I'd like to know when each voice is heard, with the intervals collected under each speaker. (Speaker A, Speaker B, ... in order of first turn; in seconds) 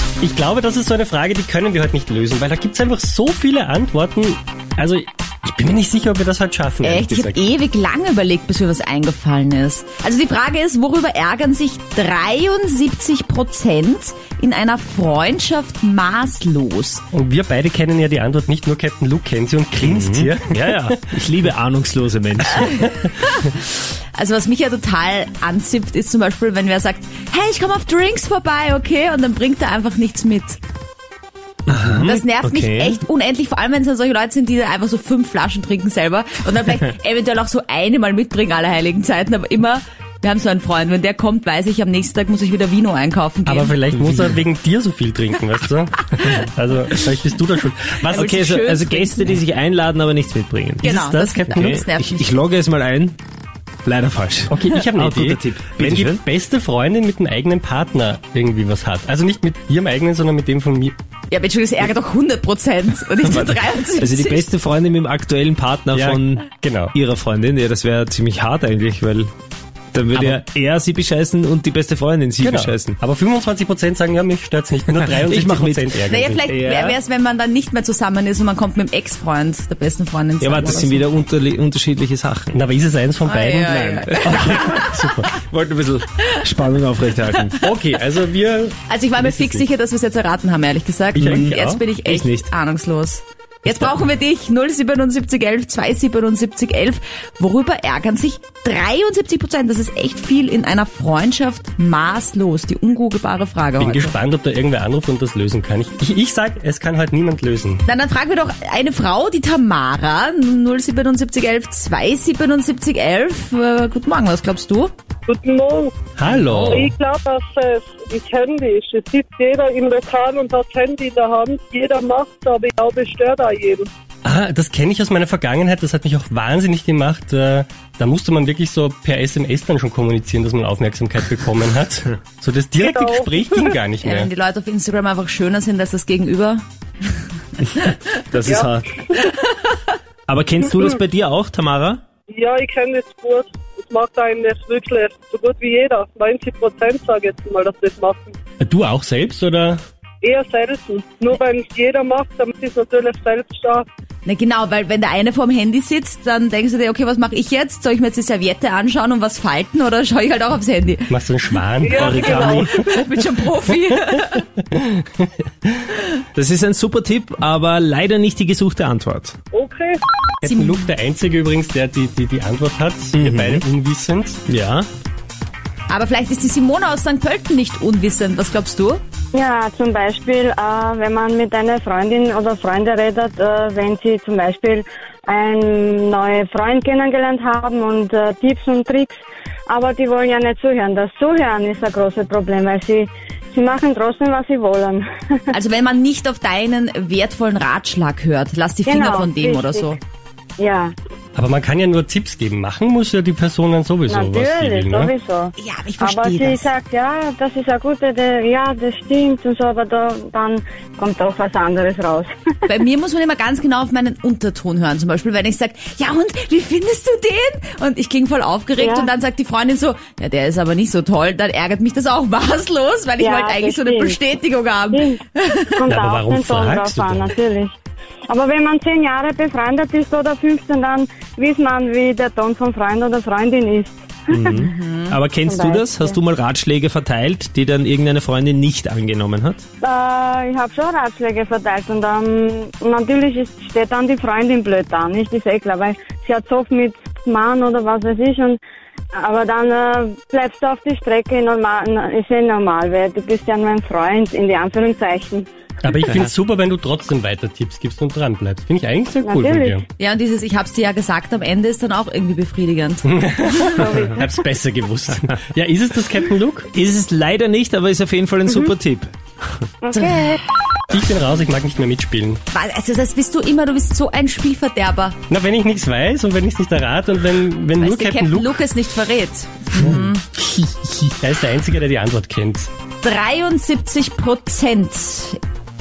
Speaker A: 0.2-7.4, 17.1-20.9, 43.5-48.4, 50.8-51.8, 54.5-60.9, 65.9-66.9, 70.1-70.4, 72.4-76.4, 82.5-85.3, 87.6-89.7, 91.1-91.8, 93.7-93.9, 103.8-107.8, 116.2-117.0, 124.2-134.3, 148.6-149.8, 161.1-162.9, 164.3-165.8, 170.4-174.4, 201.3-205.1, 225.9-227.3, 255.8-259.8, 263.0-266.7, 270.9-272.4, 275.3-278.6, 279.8-280.1, 281.2-282.7
Speaker B: 6.8-17.0, 22.6-30.6, 32.0-43.7, 48.1-49.4, 50.8-52.3, 61.3-64.5, 76.1-81.1, 83.2-85.3, 87.5-87.8, 88.9-104.1, 107.8-114.9, 134.0-136.6, 137.7-138.1, 139.3-139.8, 154.2-161.1, 162.0-164.4, 170.4-170.9, 175.9-179.0, 195.5-200.0, 205.6-206.7, 212.7-225.8, 234.5-235.2, 260.0-263.0, 269.9-270.4, 272.5-275.1, 277.8-280.3, 283.0-285.4
Speaker C: 19.8-22.7, 31.7-33.0, 44.0-44.4, 48.1-50.9, 51.5-53.2, 53.8-56.2, 63.2-69.3, 69.9-73.0, 74.9-77.0, 80.4-82.6, 83.6-87.6, 91.2-92.5, 138.3-139.0, 140.3-142.0, 161.9-162.8, 166.3-169.4, 173.1-173.6, 174.5-174.9, 234.3-239.6, 266.7-269.1
Speaker D: 115.3-123.9, 132.8-133.7, 142.3-148.3, 150.2-153.9, 161.8-162.6, 169.5-170.0
Speaker E: 179.3-195.0, 198.8-199.9, 200.6-200.9, 204.1-212.3, 218.8-219.1, 223.2-224.2, 224.9-225.2, 225.7-227.8, 228.3-234.7, 235.5-236.2, 239.8-248.6, 249.1-255.5, 259.2-259.8, 263.6-264.3, 269.8-270.3